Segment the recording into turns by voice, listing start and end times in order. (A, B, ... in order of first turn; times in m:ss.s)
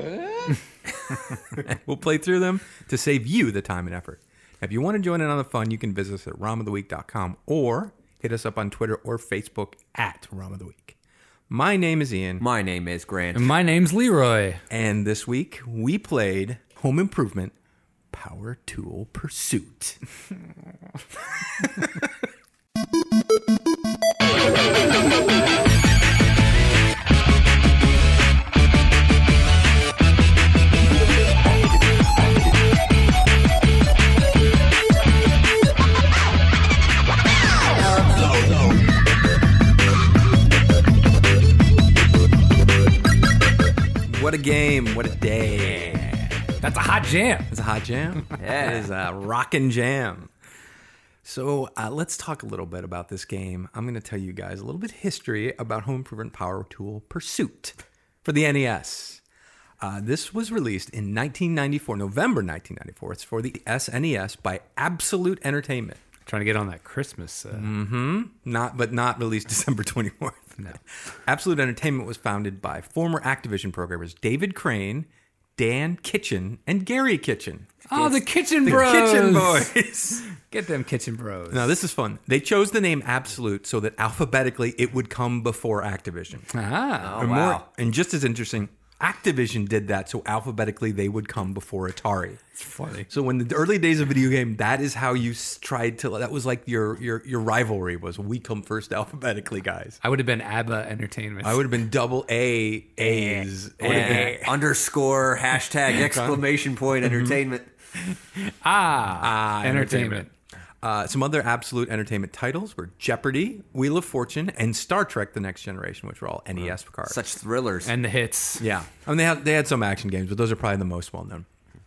0:01.5-0:11.0 A
0:11.5-0:12.4 A
0:12.4-0:13.5 B
0:13.3-0:14.6 C
0:14.7-0:17.5 A
0:18.1-0:20.0 A
0:44.0-0:46.4 A
0:46.6-0:47.5 C
0:47.5-0:50.3 A
0:48.4-0:48.9 B
0:51.2-0:59.2 A
0:59.8-1:06.0 A
1:06.2-1:07.7 C
1:07.5-1:17.8 A
1:17.9-1:19.8 C
1:18.6-1:20.3 A
1:20.3-1:21.7 C
1:21.5-1:26.5 A
1:26.5-1:27.2 C
1:27.0-1:27.7 B
1:27.2-1:32.4 A
1:32.6-1:33.1 C
1:33.1-1:40.0 A
1:40.0-1:41.8 C
1:41.4-1:44.6 A
1:43.2-1:44.4 C
1:43.8-1:47.7 B
1:46.1-1:46.4 A
1:48.4-1:50.3 C
1:49.2-1:57.2 A
1:57.0-1:57.9 B
1:57.8-1:58.6 C
1:58.6-2:01.4 A